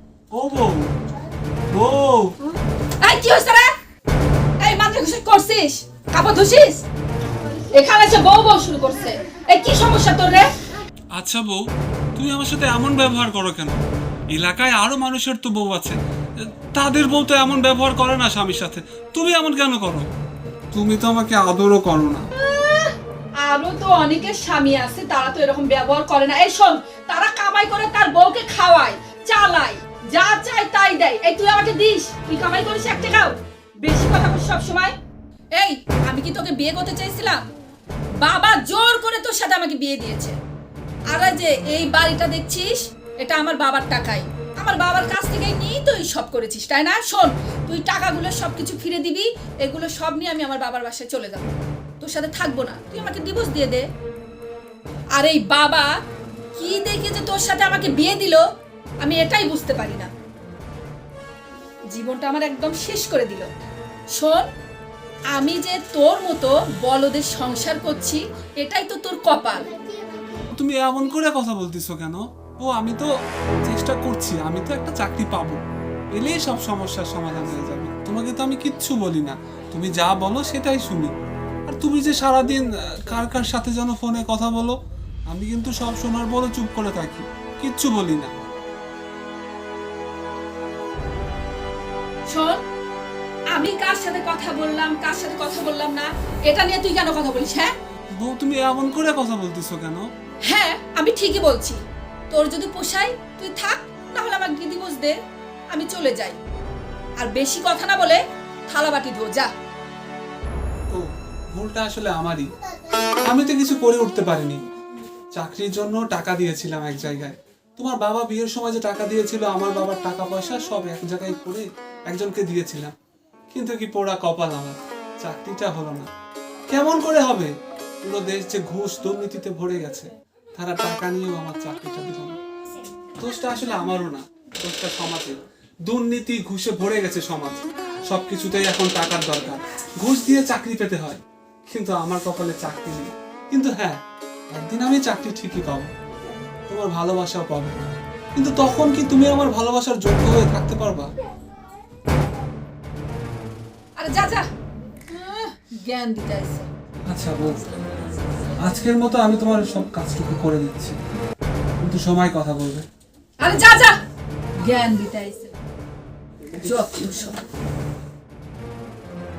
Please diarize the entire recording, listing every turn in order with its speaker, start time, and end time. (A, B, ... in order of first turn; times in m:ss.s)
0:00.3-0:00.9 A
0:01.7-0:02.3 A
0:03.0-0:03.7 B
0:04.6-0:06.8 B
0:07.7-0:10.5 B
0:11.1-0:11.6 A
0:12.1-0:13.8 A
0:14.3-0:20.0 A
0:20.7-0:22.2 A
0:22.4-0:34.9 B
0:35.6-0:37.4 B
0:38.2-0:40.4 B
0:41.1-0:53.9 B
0:55.1-0:55.9 B
0:56.5-0:58.4 B
0:59.0-1:00.1 B
1:01.9-1:03.5 B
1:04.1-1:04.4 B
1:05.3-1:09.7 B
1:10.5-1:13.1 A
1:13.6-1:15.6 A
1:16.1-1:21.1 A
1:21.7-1:24.8 A
1:25.3-1:28.3 A
1:32.3-1:32.6 B
1:33.5-1:37.7 B
1:38.2-1:40.0 A
1:40.5-1:45.2 B
1:45.7-1:46.4 B
1:47.2-1:49.5 B
1:50.9-1:52.4 A
1:53.3-1:54.6 A
1:55.3-2:02.9 A
2:03.5-2:06.1 A
2:06.7-2:07.5 A
2:08.0-2:12.4 A
2:13.2-2:24.0 A
2:24.5-2:25.9 A
2:26.7-2:31.1 A
2:34.0-2:34.4 B
2:35.1-2:36.7 B
2:37.1-2:37.5 A
2:38.6-2:41.0 A
2:41.8-2:42.8 A
2:43.4-2:43.9 B
2:44.6-2:45.5 B
2:46.5-2:47.4 B